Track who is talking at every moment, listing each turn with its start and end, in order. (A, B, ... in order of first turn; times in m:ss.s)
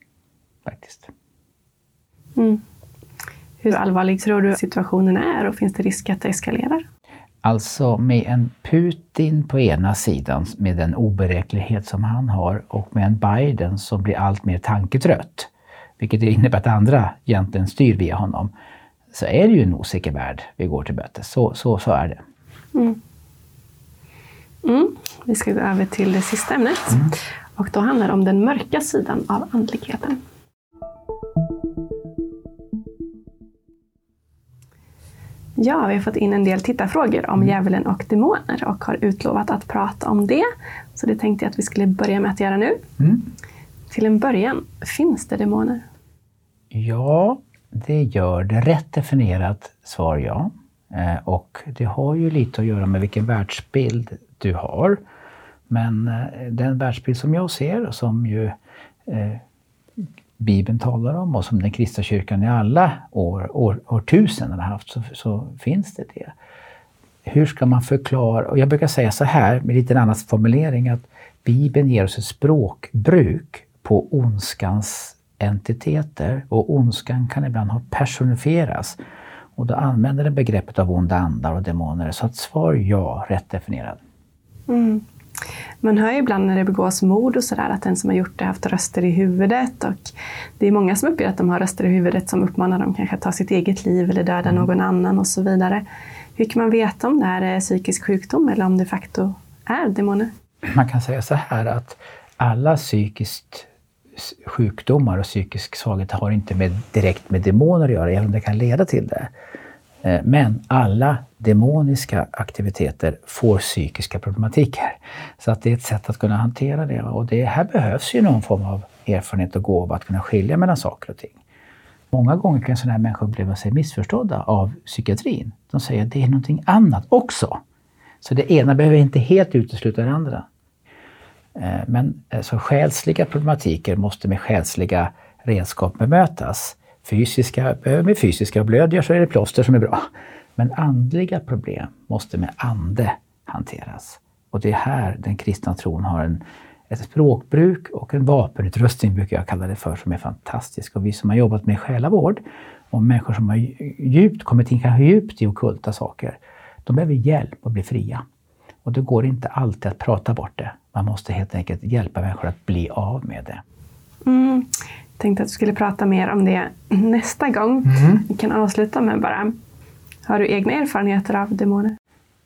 0:00.6-0:01.1 A
0:02.4-0:02.6 B
0:03.6-0:06.8 B
0:07.4-0:18.5 A
0:19.1-0:22.2 A
0:24.6-0:30.2 B
0:35.6-0:42.8 B
0:43.9-0:45.8 B
0:46.7-0:55.0 A
0:55.7-0:58.5 A
0:59.0-0:59.4 A
1:00.4-1:06.3 A
1:07.2-1:19.0 A
1:19.6-1:24.0 A
1:24.7-1:25.0 B
1:25.8-1:35.8 B
1:36.4-1:40.3 B
1:40.7-1:49.3 A
1:50.0-2:01.4 A
2:02.1-2:07.6 A
2:08.2-2:10.5 A
2:11.6-2:20.0 A
2:20.6-2:38.2 A
2:38.8-2:43.6 A
2:44.2-2:49.5 B
2:47.9-2:48.2 A
2:50.3-2:52.0 B